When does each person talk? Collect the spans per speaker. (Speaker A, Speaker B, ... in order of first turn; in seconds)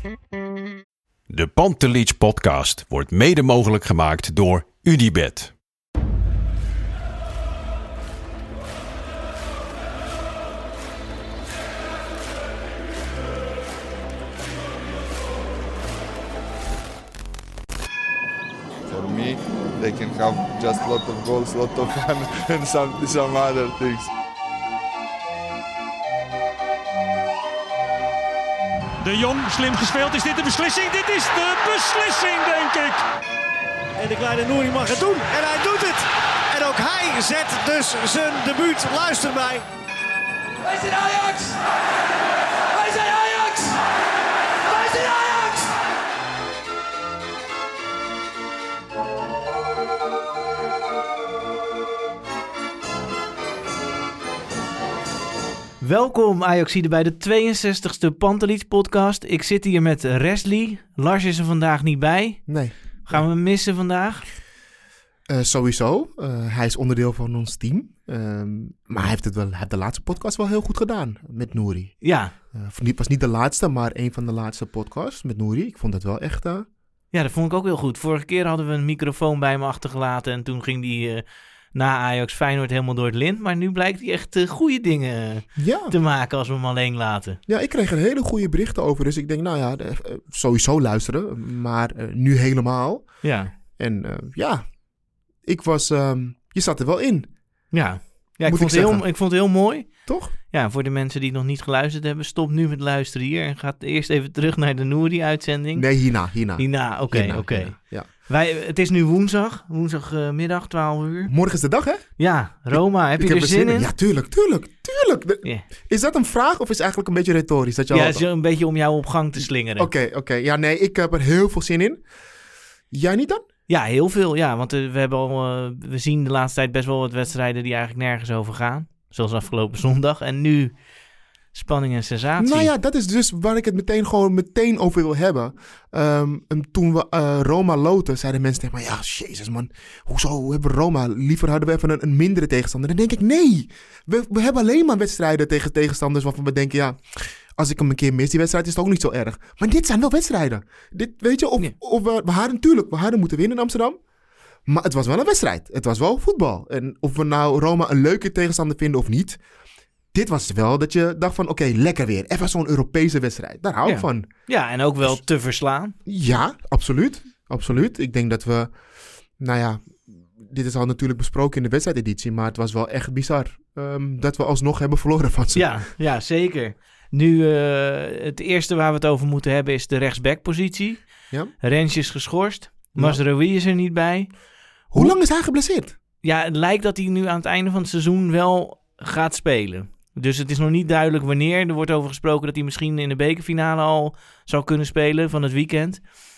Speaker A: 1.3-5.5
Speaker B: 18.9-24.1
Speaker C: 29.0-33.0
Speaker D: 34.0-39.7, 40.6-41.6, 42.7-43.8, 44.6-45.7
Speaker E: 55.8-64.2, 72.0-72.3, 77.1-87.4, 93.2-93.5, 97.7-105.9, 106.6-111.3, 112.2-113.9, 117.9-119.9, 123.7-130.7, 131.5-132.7, 163.8-165.9, 175.6-184.3, 186.2-196.0
Speaker F: 62.5-63.2, 65.3-76.7, 85.6-86.0, 87.5-93.1, 93.8-94.7, 95.4-97.3, 98.5-99.2, 100.1-100.3, 105.7-108.1, 111.3-112.2, 112.7-118.2, 119.8-122.0, 122.9-123.5, 132.4-154.0, 154.7-159.4, 160.1-164.3, 166.1-168.7, 169.4-175.8, 184.9-186.0